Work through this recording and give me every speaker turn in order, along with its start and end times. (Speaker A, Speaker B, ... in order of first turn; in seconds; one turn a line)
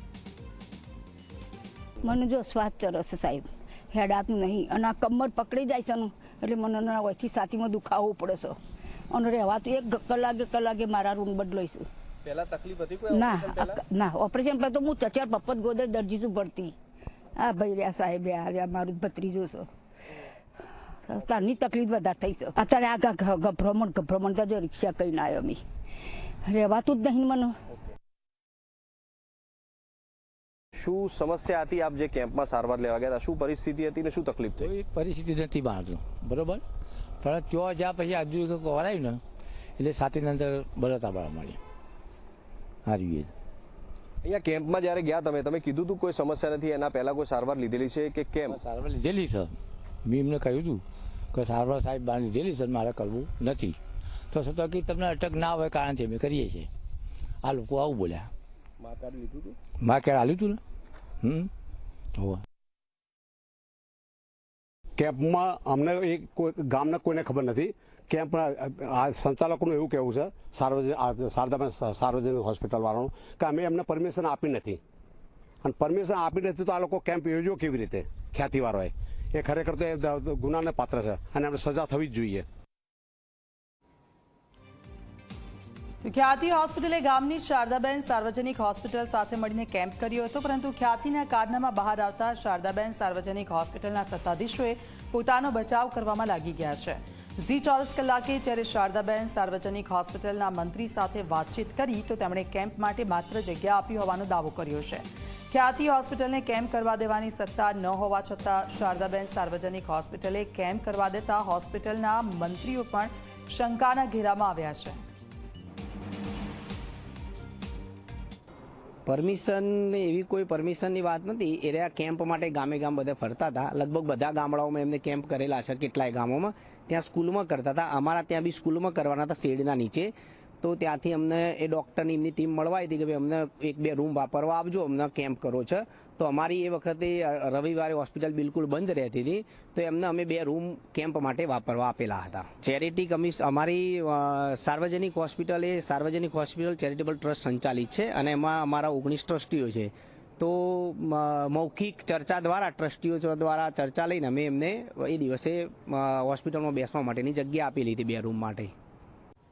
Speaker A: 2.0-8.6
Speaker A: 9.1-11.9
Speaker B: 12.2-13.8
Speaker A: 13.1-16.7
Speaker A: 17.4-19.7
Speaker A: 21.1-25.6
Speaker A: 26.4-27.6
Speaker B: 30.7-34.7
Speaker C: 34.6-36.6
Speaker C: 37.2-39.2
Speaker C: 39.8-41.6
Speaker C: 42.9-43.3
Speaker B: 44.2-48.6
Speaker C: 48.5-49.5
Speaker C: 50.0-53.8
Speaker C: 54.3-56.7
Speaker C: 57.4-58.3
Speaker B: 58.8-59.5
Speaker C: 59.8-60.6
Speaker C: 61.2-61.5
Speaker D: 65.0-74.8
Speaker D: 75.6-82.5
Speaker E: 86.0-115.0
Speaker F: 119.1-130.1
Speaker F: 130.6-158.7